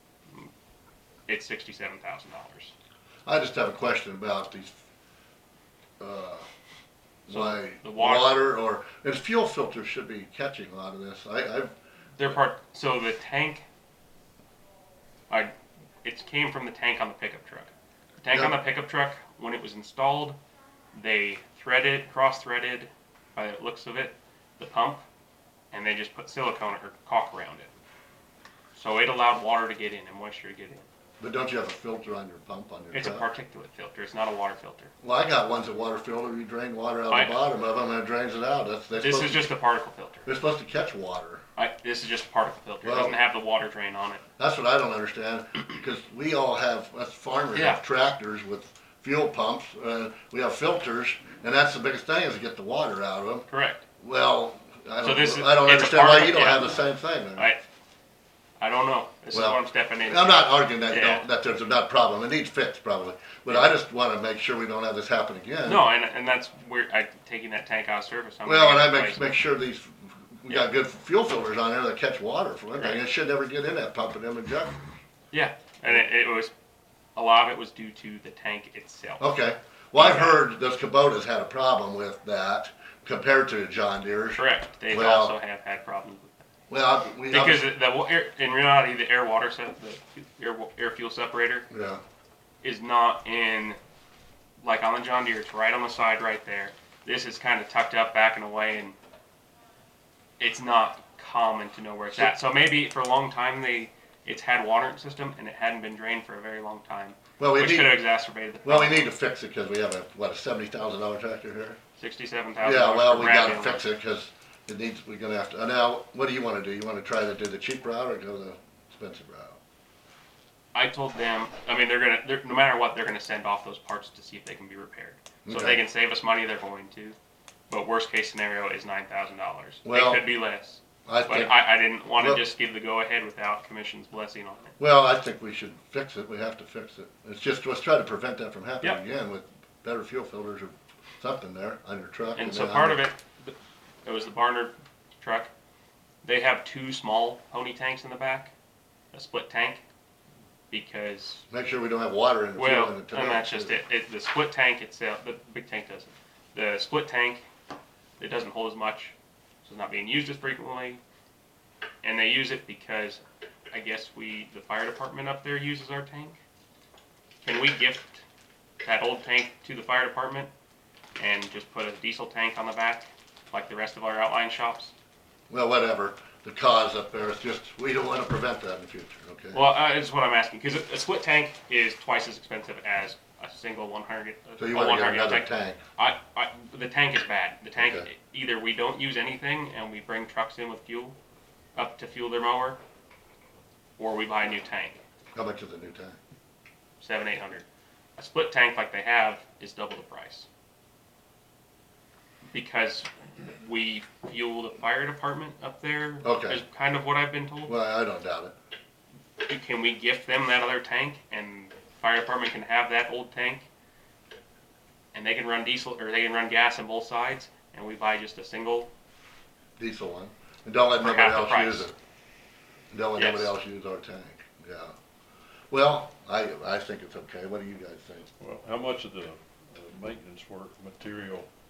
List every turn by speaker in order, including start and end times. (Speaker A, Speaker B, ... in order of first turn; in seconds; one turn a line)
Speaker A: 1.3-2.7
Speaker B: 3.2-4.7
Speaker B: 6.0-6.5
Speaker B: 7.3-11.7
Speaker A: 7.3-8.4
Speaker A: 12.2-13.7
Speaker A: 16.0-17.7
Speaker A: 18.2-20.4
Speaker A: 20.9-25.0
Speaker A: 25.7-27.7
Speaker A: 28.7-30.9
Speaker B: 31.2-33.3
Speaker A: 32.9-34.9
Speaker B: 35.0-39.5
Speaker A: 37.1-37.4
Speaker A: 39.0-40.3
Speaker B: 40.2-41.4
Speaker A: 41.5-44.2
Speaker B: 42.8-43.2
Speaker B: 44.4-53.5
Speaker A: 47.5-47.8
Speaker A: 53.5-53.8
Speaker B: 54.0-57.5
Speaker A: 55.0-56.8
Speaker A: 57.3-57.6
Speaker A: 58.6-61.2
Speaker B: 59.3-65.8
Speaker A: 65.7-69.3
Speaker B: 68.5-74.8
Speaker A: 75.3-76.5
Speaker A: 77.2-79.2
Speaker B: 79.2-85.3
Speaker A: 80.0-80.4
Speaker A: 84.4-86.4
Speaker B: 86.7-87.7
Speaker A: 87.3-91.7
Speaker B: 91.7-92.0
Speaker A: 92.6-93.8
Speaker A: 94.6-99.0
Speaker A: 100.4-109.1
Speaker B: 107.4-108.0
Speaker B: 108.6-111.8
Speaker A: 112.0-113.8
Speaker B: 112.6-119.6
Speaker A: 120.7-127.2
Speaker B: 125.4-125.8
Speaker A: 127.7-134.7
Speaker B: 129.8-130.2
Speaker B: 131.1-131.6
Speaker B: 132.1-132.4
Speaker B: 134.8-143.0
Speaker A: 142.3-145.5
Speaker A: 146.2-148.5
Speaker A: 149.1-149.8
Speaker A: 150.7-151.4
Speaker B: 151.5-153.8
Speaker A: 152.6-157.4
Speaker A: 158.2-161.0
Speaker A: 162.0-166.4
Speaker A: 167.4-168.2
Speaker A: 168.8-170.5
Speaker A: 171.2-174.9
Speaker B: 175.5-179.6
Speaker A: 179.5-191.2
Speaker B: 184.6-185.8
Speaker B: 187.8-188.1
Speaker A: 191.7-192.8
Speaker A: 194.0-195.0
Speaker B: 195.3-196.2
Speaker A: 197.0-197.6
Speaker A: 198.2-200.5
Speaker A: 202.5-207.7
Speaker B: 206.2-206.6
Speaker B: 207.7-208.5
Speaker A: 209.4-213.7
Speaker A: 215.1-218.9
Speaker B: 219.8-221.9
Speaker A: 221.0-221.9
Speaker B: 222.9-224.9
Speaker A: 223.2-223.5
Speaker B: 225.7-228.3
Speaker C: 228.4-231.5